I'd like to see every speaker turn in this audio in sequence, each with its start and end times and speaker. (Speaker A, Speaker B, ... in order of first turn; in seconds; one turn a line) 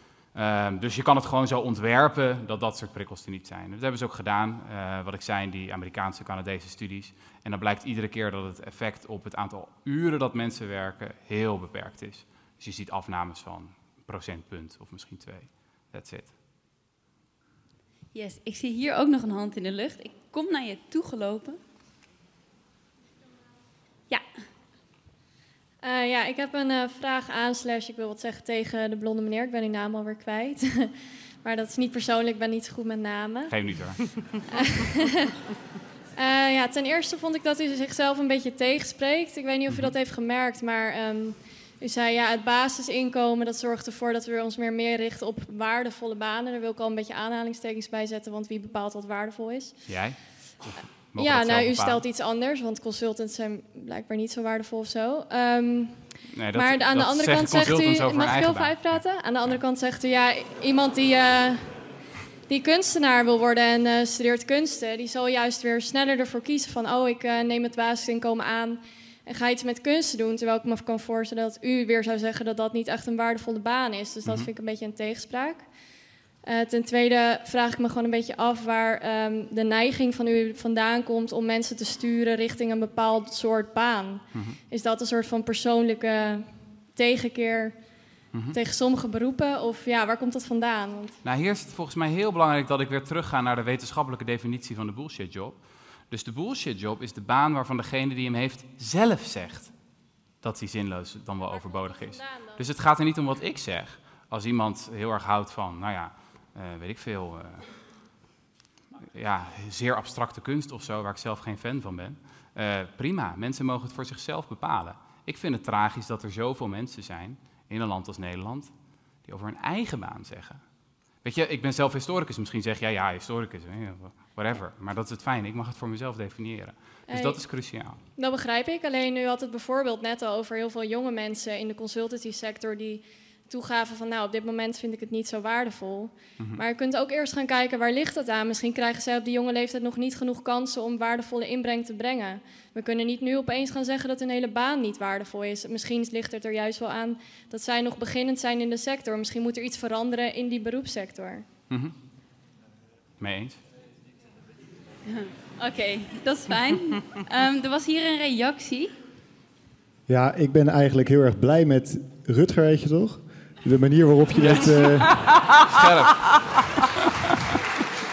Speaker A: 0.3-16.3
Speaker B: 18.1-21.6
Speaker B: 24.1-24.4
Speaker C: 25.8-33.5
Speaker A: 33.5-34.1
Speaker C: 34.5-35.3
Speaker C: 36.2-49.8
Speaker A: 39.7-40.0
Speaker A: 49.9-52.0
Speaker C: 51.2-61.8
Speaker A: 56.3-59.5
Speaker C: 62.5-75.7
Speaker C: 76.4-87.8
Speaker C: 88.5-91.2
Speaker A: 91.2-99.7
Speaker A: 100.4-107.7
Speaker C: 101.5-102.6
Speaker A: 109.1-118.7
Speaker A: 119.2-120.6
Speaker A: 121.2-128.0
Speaker C: 127.1-127.4
Speaker C: 128.2-151.4
Speaker A: 153.2-153.6
Speaker B: 155.1-158.9
Speaker D: 160.1-165.2
Speaker A: 164.4-166.8